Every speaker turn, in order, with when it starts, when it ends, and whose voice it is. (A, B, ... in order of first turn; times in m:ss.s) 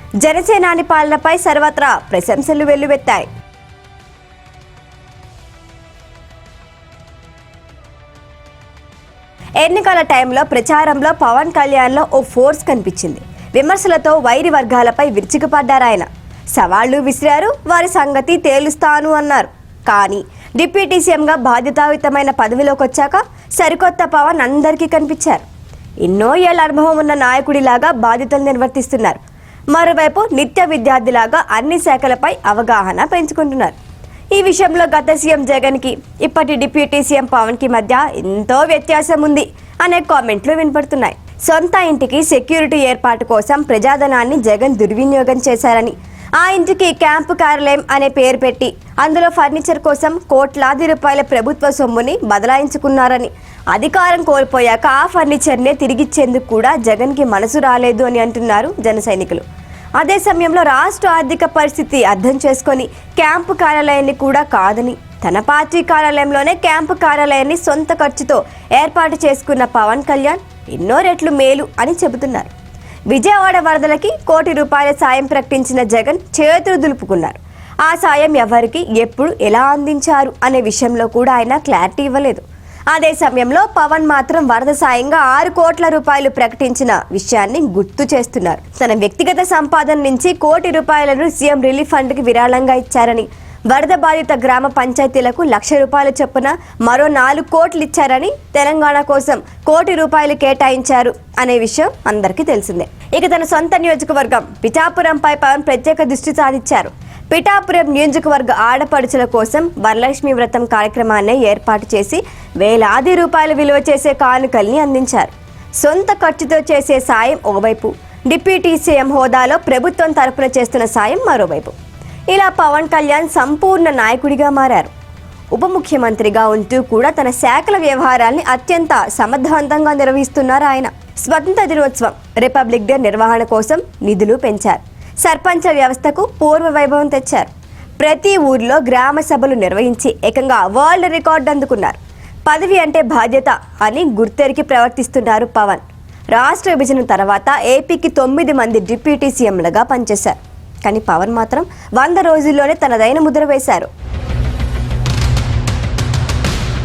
0:00.2-0:03.3 A
0:09.6-0:25.4 A
0:26.0-0:29.2 A
0:29.7-0:33.8 A
0:34.3-0:59.4 A
1:00.0-1:12.5 A
1:13.1-2:01.8 A
2:02.3-2:04.9 A
2:05.5-2:33.9 A